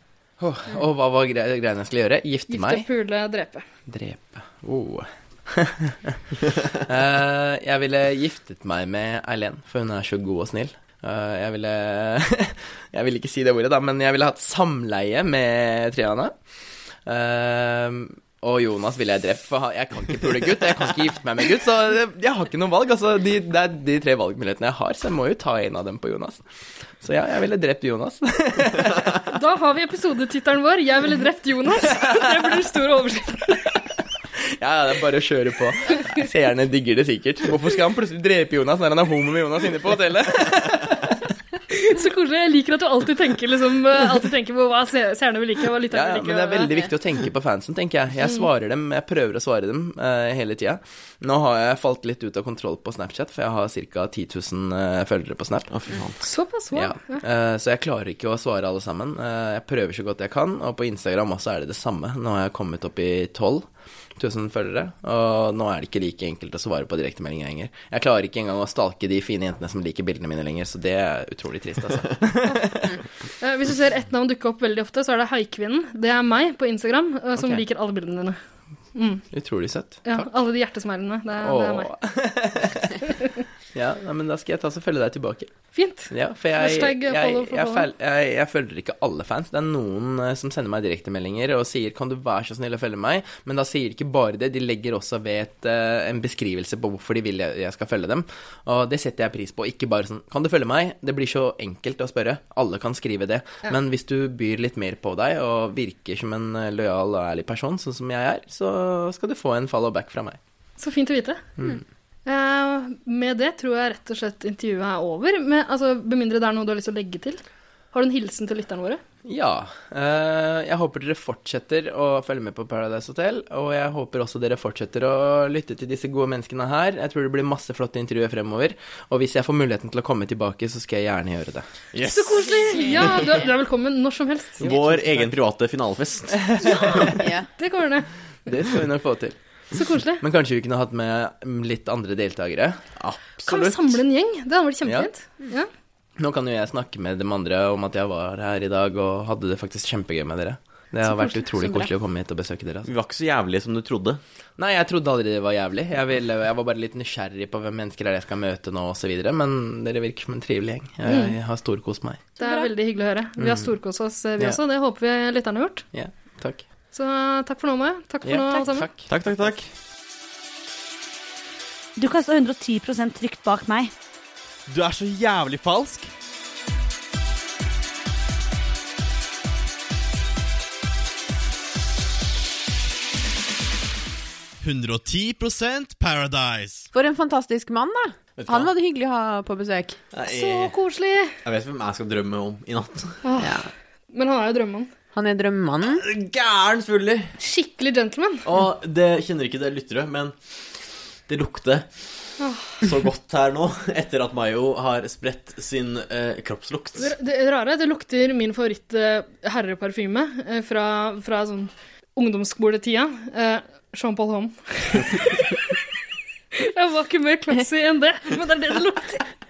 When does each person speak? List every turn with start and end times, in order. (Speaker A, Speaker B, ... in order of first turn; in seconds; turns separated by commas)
Speaker A: 0.4-2.9, Speaker B: 2.5-3.6, Speaker A: 3.9-6.2, Speaker A: 6.8-16.3, Speaker A: 17.1-26.4, Speaker A: 27.0-29.2, Speaker B: 29.3-33.7, Speaker A: 34.6-41.2, Speaker B: 41.7-46.8, Speaker A: 45.9-55.7, Speaker C: 55.7-56.2, Speaker B: 56.2-57.2, Speaker A: 56.7-73.0, Speaker B: 73.4-78.4, Speaker A: 77.4-77.6, Speaker B: 79.0-79.3, Speaker A: 79.3-80.3, Speaker B: 80.1-81.9, Speaker A: 81.4-83.0, Speaker A: 83.7-85.5, Speaker B: 85.7-87.9, Speaker A: 86.1-110.4, Speaker B: 110.8-111.4, Speaker B: 112.3-117.4, Speaker B: 117.9-119.0, Speaker A: 119.2-131.7, Speaker C: 131.9-133.1, Speaker B: 132.0-134.7, Speaker D: 132.7-133.4, Speaker A: 134.6-135.4, Speaker C: 134.6-136.5, Speaker A: 136.3-137.1, Speaker B: 136.6-138.1, Speaker D: 137.2-137.5, Speaker A: 138.5-139.4, Speaker B: 139.7-140.2, Speaker A: 140.2-142.8, Speaker C: 143.0-144.0, Speaker B: 143.5-145.7, Speaker A: 144.8-145.1, Speaker A: 146.2-152.9, Speaker B: 151.1-151.9, Speaker C: 152.9-154.2, Speaker A: 154.6-162.3, Speaker B: 161.1-161.3, Speaker B: 162.4-165.8, Speaker A: 163.4-163.7, Speaker A: 165.9-166.7, Speaker B: 166.9-168.9, Speaker A: 168.2-169.5, Speaker C: 169.1-169.7, Speaker E: 172.0-173.9, Speaker C: 174.7-176.1, Speaker C: 184.6-186.9, Speaker D: 186.9-190.0, Speaker C: 188.4-188.7, Speaker C: 190.1-190.7, Speaker B: 190.3-191.4, Speaker C: 191.4-193.2, Speaker B: 193.2-193.6, Speaker D: 193.4-193.7, Speaker B: 194.1-194.9, Speaker D: 195.1-196.1, Speaker C: 195.8-197.3, Speaker B: 197.4-198.4, Speaker C: 198.4-200.3, Speaker C: 201.3-201.9, Speaker B: 202.4-202.8, Speaker C: 202.8-207.1, Speaker B: 207.0-215.8, Speaker B: 216.5-219.2